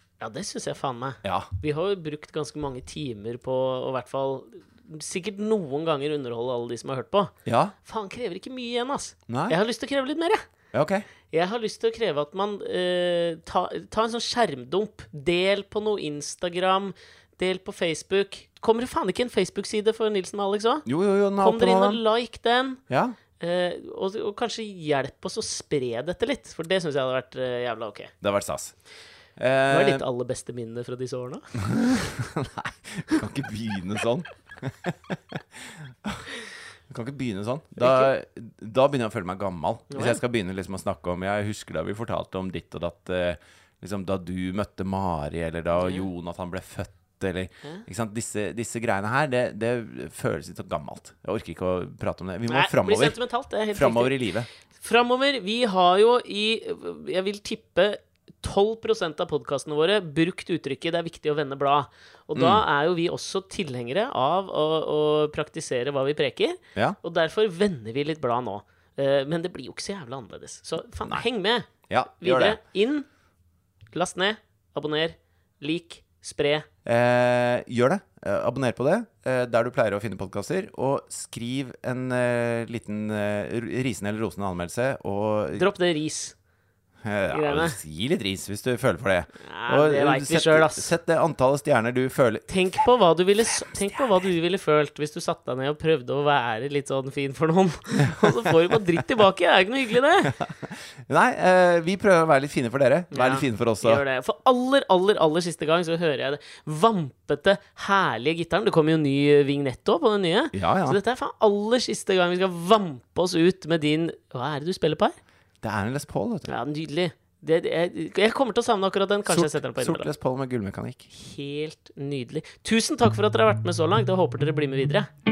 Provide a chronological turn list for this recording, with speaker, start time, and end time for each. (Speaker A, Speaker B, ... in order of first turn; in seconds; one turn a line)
Speaker A: 0.2-7.3
Speaker B: 1.2-1.5
Speaker B: 7.5-7.7
Speaker A: 7.8-10.4
Speaker B: 9.3-9.6
Speaker B: 10.7-11.1
Speaker A: 11.3-20.9
Speaker B: 20.9-22.0
Speaker A: 21.4-22.8
Speaker B: 22.9-23.2
Speaker A: 23.4-28.1
Speaker B: 28.2-28.7
Speaker B: 29.4-30.0
Speaker A: 29.7-31.6
Speaker B: 31.6-36.3
Speaker B: 36.9-53.2
Speaker A: 37.8-38.1
Speaker A: 39.9-40.2
Speaker A: 45.8-46.1
Speaker A: 52.5-54.2
Speaker B: 53.7-54.5
Speaker A: 54.8-73.1
Speaker B: 62.4-62.6
Speaker B: 71.9-72.6
Speaker A: 73.9-76.7
Speaker B: 76.8-85.7
Speaker A: 85.6-86.3
Speaker B: 87.0-92.5
Speaker A: 87.3-87.8
Speaker A: 89.4-90.9
Speaker A: 92.5-100.3
Speaker B: 98.1-98.8
Speaker B: 100.2-104.0
Speaker A: 103.1-115.2
Speaker B: 110.5-111.0
Speaker B: 115.6-116.5
Speaker A: 116.5-120.1
Speaker B: 119.3-121.1
Speaker A: 121.1-125.1